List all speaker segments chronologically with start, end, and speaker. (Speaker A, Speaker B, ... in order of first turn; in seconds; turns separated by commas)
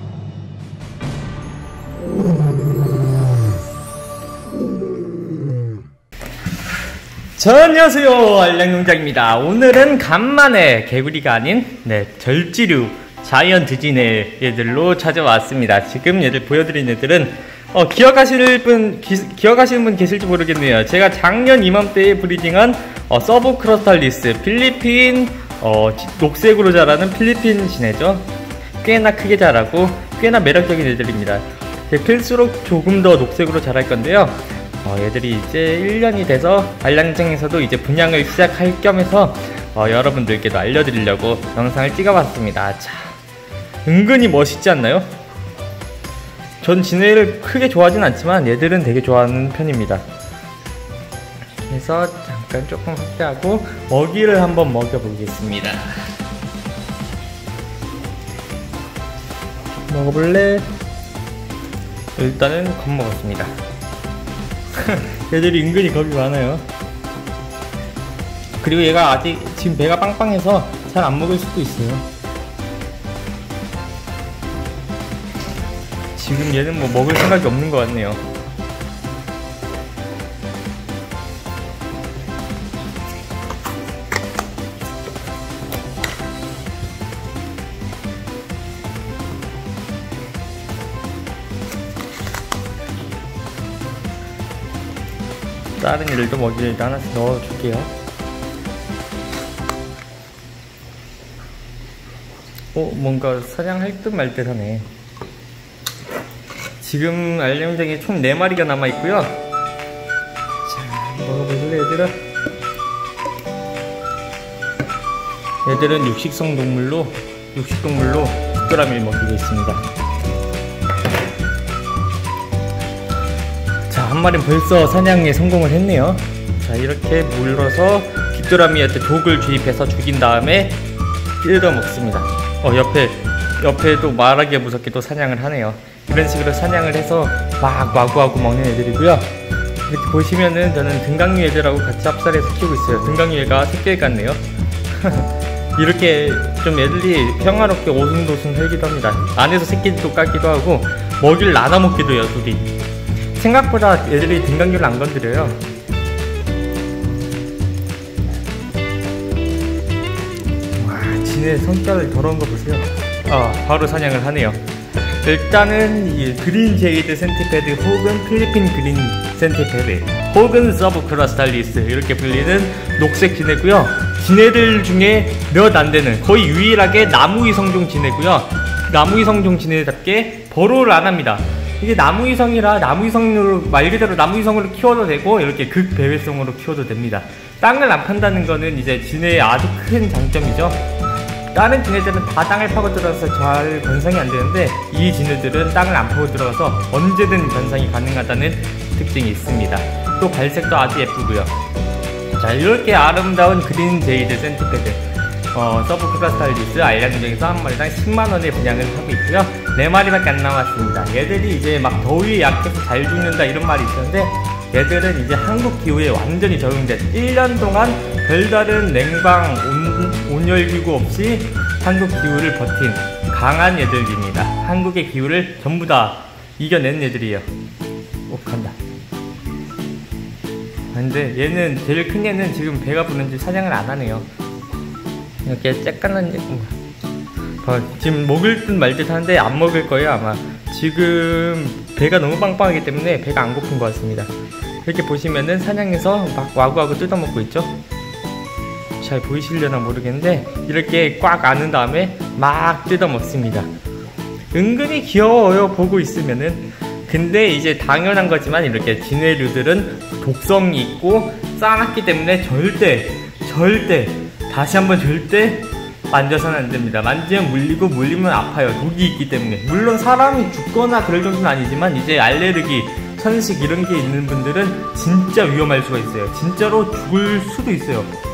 Speaker A: 7.4-28.3, Speaker A: 28.8-43.1, Speaker A: 43.8-45.1, Speaker A: 46.6-50.0, Speaker A: 51.7-56.0, Speaker A: 59.9-60.7, Speaker A: 62.1-63.5, Speaker A: 64.7-66.6, Speaker A: 68.6-72.0, Speaker A: 76.2-78.2, Speaker A: 95.8-97.9, Speaker A: 102.7-104.9, Speaker A: 106.8-109.4, Speaker A: 110.7-112.2, Speaker A: 115.6-119.8, Speaker A: 123.9-130.8, Speaker A: 131.4-139.3, Speaker A: 139.8-152.7, Speaker A: 153.3-155.6, Speaker A: 160.8-164.6, Speaker A: 165.2-190.8, Speaker A: 191.5-201.5, Speaker A: 202.3-205.0, Speaker A: 205.5-227.5, Speaker A: 228.3-228.8, Speaker A: 230.9-234.3, Speaker A: 235.4-236.7, Speaker A: 237.6-244.3, Speaker A: 244.8-247.7, Speaker A: 249.0-253.7, Speaker A: 254.5-278.1